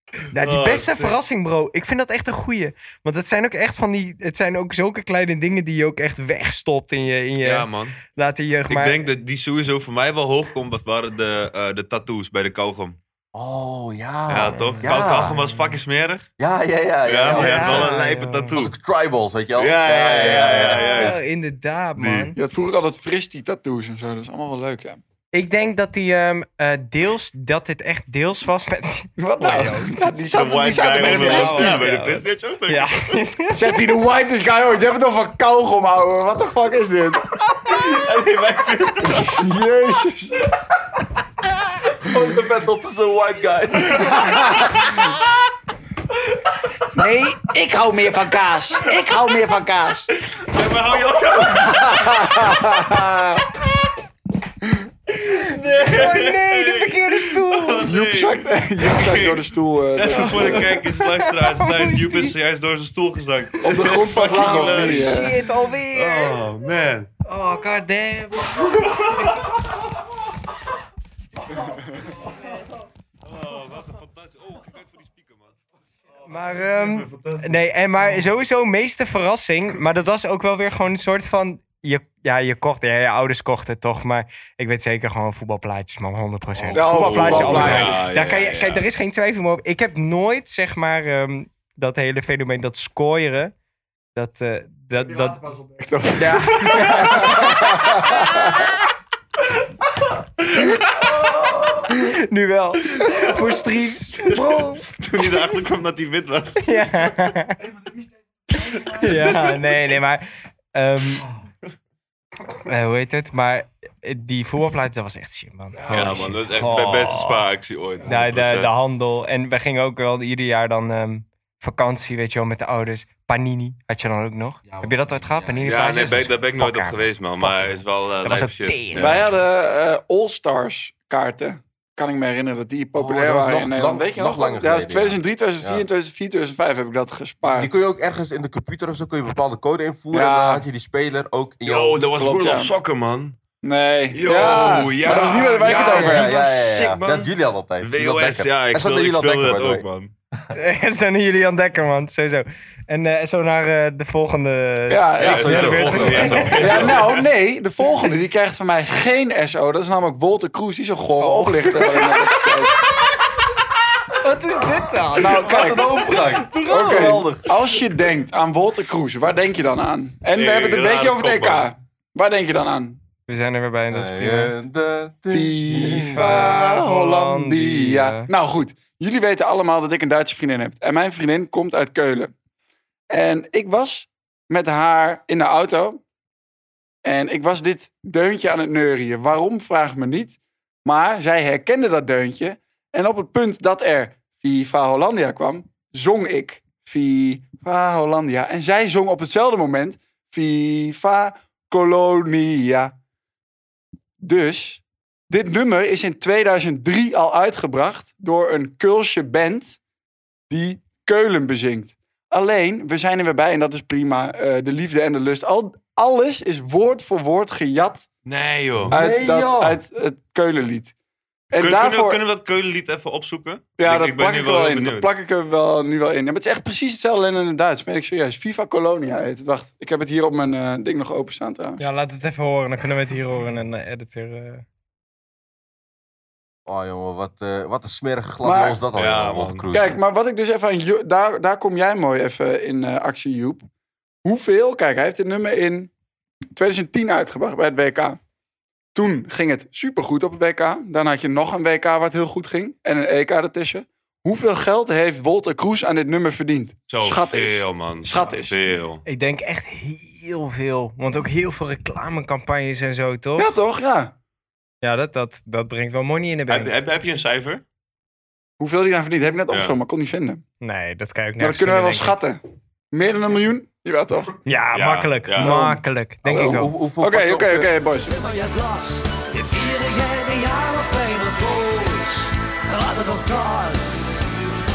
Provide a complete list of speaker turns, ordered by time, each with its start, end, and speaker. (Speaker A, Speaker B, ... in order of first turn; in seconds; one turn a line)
Speaker A: 0.3-9.0
Speaker B: 0.3-1.1
Speaker B: 7.4-8.0
Speaker B: 8.7-13.0
Speaker C: 13.3-15.4
Speaker B: 14.3-16.3
Speaker A: 14.5-15.7
Speaker C: 16.4-18.0
Speaker B: 17.1-18.7
Speaker A: 17.3-18.5
Speaker C: 18.5-21.2
Speaker B: 19.6-21.2
Speaker A: 20.3-22.4
Speaker B: 22.0-22.3
Speaker D: 22.4-25.0
Speaker A: 25.3-30.2
Speaker D: 29.2-31.8
Speaker B: 30.3-33.2
Speaker A: 30.9-33.6
Speaker D: 33.5-37.2
Speaker B: 37.6-39.4
Speaker D: 39.1-40.4
Speaker C: 42.0-44.2
Speaker B: 43.9-45.1
Speaker D: 44.2-44.7
Speaker D: 46.9-50.1
Speaker B: 48.9-49.1
Speaker B: 50.3-52.5
Speaker D: 51.4-53.4
Speaker B: 55.1-65.3
Speaker A: 55.5-57.9
Speaker D: 57.8-60.7
Speaker A: 60.1-62.3
Speaker D: 63.6-65.3
Speaker A: 64.3-66.4
Speaker B: 65.9-67.1
Speaker A: 67.2-68.6
Speaker B: 68.6-69.4
Speaker B: 73.2-75.5
Speaker A: 76.3-93.5
Speaker B: 77.0-77.4
Speaker C: 86.6-87.0
Speaker B: 86.7-88.8
Speaker D: 86.7-88.0
Speaker A: 94.2-95.6
Speaker D: 95.8-98.6
Speaker A: 96.2-98.5
Speaker B: 101.2-101.8
Speaker A: 101.9-104.9
Speaker B: 104.2-107.3
Speaker A: 106.6-107.6
Speaker B: 108.5-109.6
Speaker A: 108.9-111.3
Speaker A: 112.6-117.4
Speaker B: 115.9-118.7
Speaker A: 118.0-129.2
Speaker B: 125.6-129.2
Speaker D: 128.9-137.7
Speaker C: 132.9-135.8
Speaker C: 137.5-142.0
Speaker D: 140.1-140.6
Speaker B: 141.6-143.4
Speaker D: 142.0-142.7
Speaker D: 143.6-146.3
Speaker B: 144.1-150.1
Speaker C: 145.6-149.8
Speaker A: 150.5-156.8
Speaker D: 154.9-162.8
Speaker C: 155.2-157.1
Speaker B: 155.2-157.2
Speaker A: 161.2-161.6
Speaker A: 164.2-167.2
Speaker D: 165.2-166.1
Speaker C: 165.3-167.5
Speaker D: 166.7-173.0
Speaker B: 170.3-171.7
Speaker A: 173.3-174.5
Speaker C: 173.9-176.6
Speaker D: 175.3-182.3
Speaker A: 176.1-178.3
Speaker D: 183.1-186.0
Speaker D: 187.0-202.9
Speaker D: 204.2-209.8
Speaker D: 210.5-218.1
Speaker B: 218.2-218.9
Speaker C: 218.9-219.8
Speaker D: 218.9-220.9
Speaker D: 221.5-222.2
Speaker B: 221.6-225.1
Speaker D: 223.8-231.8
Speaker A: 231.8-234.6
Speaker C: 236.7-240.0
Speaker D: 238.4-238.8
Speaker B: 238.9-239.7
Speaker D: 239.7-243.7
Speaker D: 244.2-245.9
Speaker D: 246.5-248.2
Speaker D: 248.9-258.6
Speaker B: 256.9-259.0
Speaker A: 259.1-263.6
Speaker D: 263.4-264.1
Speaker A: 264.8-266.7
Speaker B: 266.5-267.6
Speaker D: 268.6-270.4
Speaker B: 269.5-269.8
Speaker A: 270.6-272.2
Speaker D: 271.4-272.4
Speaker D: 272.9-274.4
Speaker A: 274.4-276.7
Speaker B: 274.7-275.5
Speaker D: 275.4-278.1
Speaker C: 276.2-277.7
Speaker E: 277.8-284.2